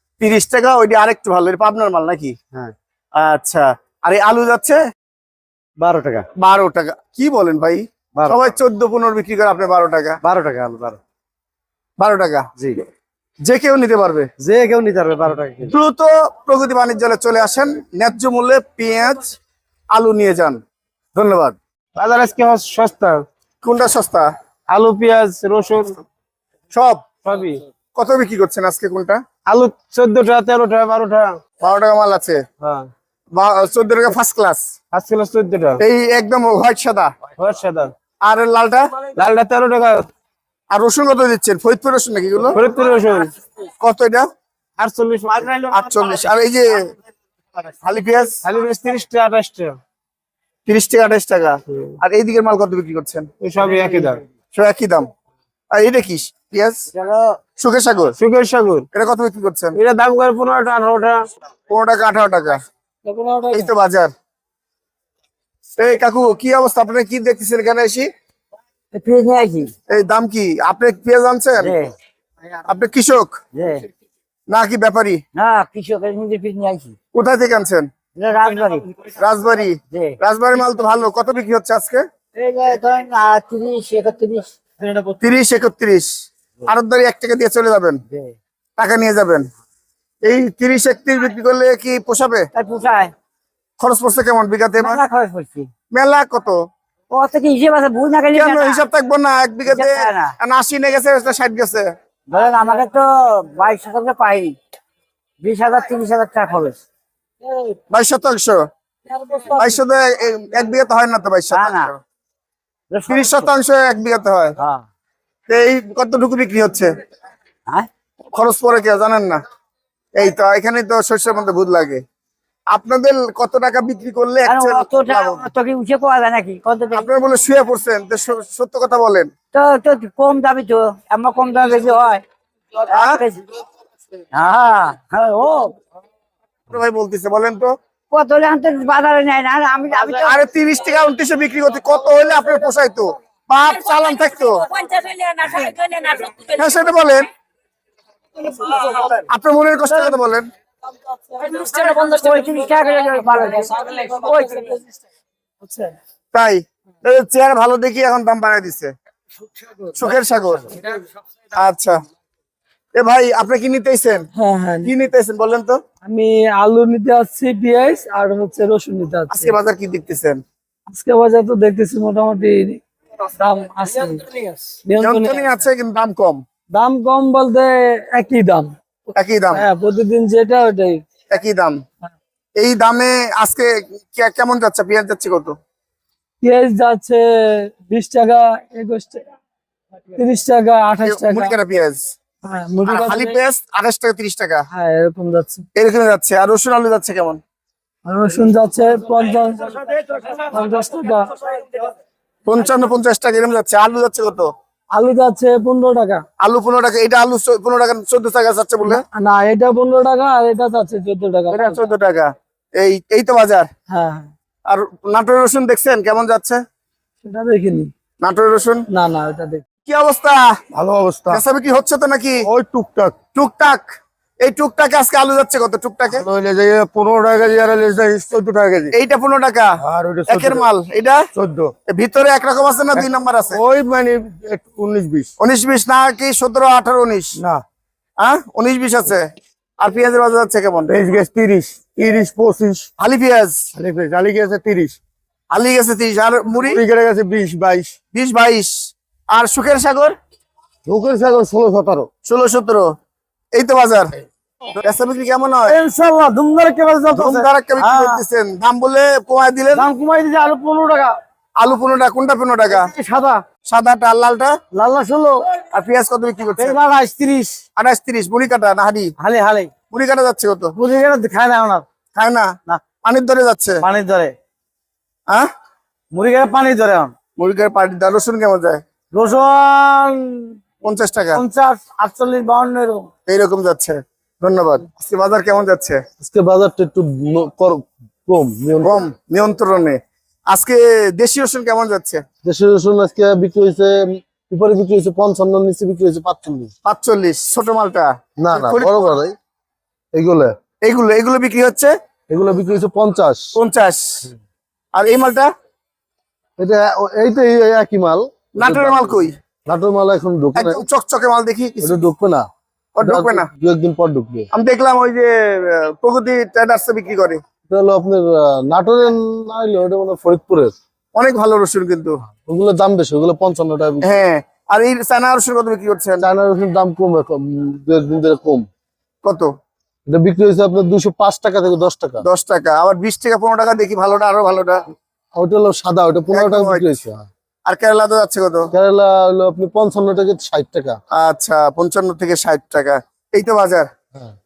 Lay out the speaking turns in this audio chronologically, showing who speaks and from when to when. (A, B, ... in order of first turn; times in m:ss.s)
0:00.2-0:02.3 A
0:03.2-0:04.8 A
0:05.8-0:06.2 B
0:06.4-0:10.2 A
0:08.2-0:08.4 B
0:10.2-0:11.0 B
0:12.0-0:12.5 A
0:13.4-0:14.3 A
0:14.4-0:15.7 B
0:15.7-0:19.3 A
0:19.9-0:20.6 A
0:21.1-0:21.6 A
0:22.0-0:23.2 B
0:23.6-0:24.3 A
0:24.7-0:26.0 B
0:26.7-0:27.0 A
0:27.2-0:27.6 B
0:27.9-0:29.2 A
0:29.4-0:31.4 B
0:31.6-0:32.4 A
0:32.6-0:32.9 B
0:33.3-0:34.6 A
0:34.9-0:35.8 B
0:35.8-0:37.1 A
0:37.3-0:37.9 B
0:38.2-0:38.8 A
0:39.1-0:40.1 B
0:40.7-0:42.6 A
0:42.5-0:43.3 B
0:43.8-0:44.2 A
0:44.8-0:45.7 B
0:45.7-0:46.7 A
0:47.8-0:48.4 A
0:48.4-0:49.8 B
0:50.7-0:53.3 A
0:53.4-0:54.2 B
0:54.5-0:55.1 A
0:55.7-0:56.9 A
0:57.6-0:58.1 A
0:58.2-0:58.8 B
0:58.9-0:59.8 A
0:59.7-1:01.2 B
1:01.7-1:02.6 A
1:03.0-1:03.7 C
1:03.5-1:04.1 A
1:05.8-1:08.1 A
1:08.9-1:09.7 D
1:09.9-1:11.7 A
1:11.6-1:11.9 D
1:12.6-1:13.4 A
1:13.5-1:13.9 D
1:14.5-1:15.2 A
1:15.3-1:16.9 D
1:17.1-1:17.9 A
1:18.2-1:18.9 D
1:19.1-1:22.0 A
1:19.9-1:20.2 D
1:22.3-1:25.0 D
1:25.2-1:26.1 A
1:26.7-1:28.0 A
1:28.1-1:28.3 D
1:28.8-1:29.4 A
1:30.2-1:32.5 A
1:32.5-1:33.1 D
1:33.8-1:35.0 A
1:34.8-1:35.7 D
1:35.9-1:36.6 A
1:37.1-1:38.8 D
1:38.3-1:41.9 A
1:39.6-1:40.3 D
1:42.3-1:44.6 D
1:45.4-1:46.8 D
1:47.4-1:47.8 C
1:47.9-1:48.6 A
1:49.0-1:49.8 C
1:49.5-1:52.0 A
1:51.5-1:51.9 D
1:52.9-1:53.5 D
1:53.1-1:54.6 A
1:54.6-1:54.8 D
1:55.5-1:56.9 A
1:58.3-1:59.4 A
2:00.2-2:02.0 A
2:02.7-2:05.4 A
2:04.4-2:07.0 D
2:06.9-2:09.3 A
2:09.5-2:12.2 D
2:12.8-2:13.4 D
2:12.9-2:13.2 A
2:14.3-2:15.8 D
2:16.7-2:17.7 A
2:18.1-2:20.3 D
2:20.2-2:24.7 A
2:24.7-2:26.4 D
2:26.5-2:27.3 A
2:29.0-2:30.5 A
2:31.0-2:34.9 C
2:31.5-2:34.7 D
2:35.6-2:35.9 C
2:36.3-2:38.9 A
2:39.9-2:40.8 A
2:41.5-2:42.0 A
2:42.9-2:44.3 A
2:44.3-2:44.9 C
2:44.8-2:45.8 A
2:46.0-2:49.6 C
2:49.3-2:50.4 A
2:50.9-2:52.8 C
2:53.4-2:55.6 C
2:55.0-2:56.4 A
2:56.7-2:58.7 C
2:59.1-2:59.6 A
2:59.5-3:01.0 C
3:01.3-3:01.8 A
3:02.6-3:05.5 A
3:06.4-3:09.2 C
3:10.1-3:11.5 C
3:11.0-3:12.1 A
3:12.4-3:13.4 C
3:12.8-3:14.6 A
3:14.7-3:15.6 C
3:15.8-3:17.4 A
3:18.0-3:21.8 C
3:22.5-3:24.5 A
3:24.9-3:26.2 C
3:26.4-3:29.0 A
3:28.8-3:31.8 C
3:31.5-3:33.7 A
3:33.9-3:34.3 C
3:34.7-3:36.6 A
3:37.2-3:37.9 C
3:38.2-3:38.8 A
3:38.9-3:39.6 C
3:39.9-3:40.4 A
3:40.8-3:41.4 E
3:41.3-3:42.4 A
3:42.5-3:43.1 E
3:43.3-3:46.2 A
3:46.2-3:48.5 E
3:48.9-3:49.7 A
3:50.0-3:50.4 E
3:50.3-3:51.2 A
3:51.9-3:53.6 A
3:53.6-3:54.2 E
3:54.8-3:55.1 E
3:55.4-3:57.3 A
3:58.2-3:59.3 A
3:59.8-4:00.9 A
4:01.7-4:02.1 B
4:03.0-4:03.6 A
4:05.5-4:06.8 A
4:08.1-4:10.1 A
4:10.9-4:12.0 E
4:12.2-4:12.9 A
4:13.5-4:14.1 A
4:14.8-4:15.8 A
4:15.7-4:18.2 B
4:17.1-4:19.9 A
4:19.7-4:21.2 B
4:21.6-4:22.9 A
4:22.6-4:23.4 B
4:23.6-4:24.5 A
4:24.7-4:25.5 B
4:25.7-4:26.8 A
4:26.6-4:27.6 B
4:27.8-4:29.1 A
4:29.2-4:29.7 B
4:29.9-4:30.8 A
4:30.8-4:31.8 B
4:32.1-4:32.5 A
4:33.0-4:33.8 A
4:33.8-4:34.3 B
4:36.1-4:37.1 B
4:37.4-4:38.8 A
4:39.1-4:40.5 B
4:40.8-4:41.4 A
4:41.4-4:43.1 B
4:43.2-4:46.0 A
4:46.2-4:49.0 E
4:48.8-4:50.0 A
4:50.5-4:52.2 A
4:52.4-4:56.7 E
4:56.8-4:59.1 A
4:58.4-4:59.3 E
5:00.1-5:00.5 E
5:00.8-5:01.9 A
5:02.3-5:03.6 E
5:03.5-5:04.3 A
5:04.9-5:05.5 A
5:06.6-5:10.8 E
5:08.6-5:09.3 A
5:10.6-5:12.0 A
5:11.8-5:12.5 E
5:13.0-5:13.5 A
5:13.0-5:14.5 E
5:14.5-5:17.4 A
5:17.7-5:20.7 E
5:21.1-5:22.2 A
5:22.4-5:24.1 E
5:24.0-5:26.2 A
5:26.2-5:28.6 E
5:29.2-5:29.5 A
5:30.1-5:32.2 E
5:32.2-5:34.8 A
5:35.3-5:37.2 E
5:36.3-5:36.9 A
5:37.7-5:38.7 A
5:38.7-5:41.0 E
5:41.1-5:43.9 A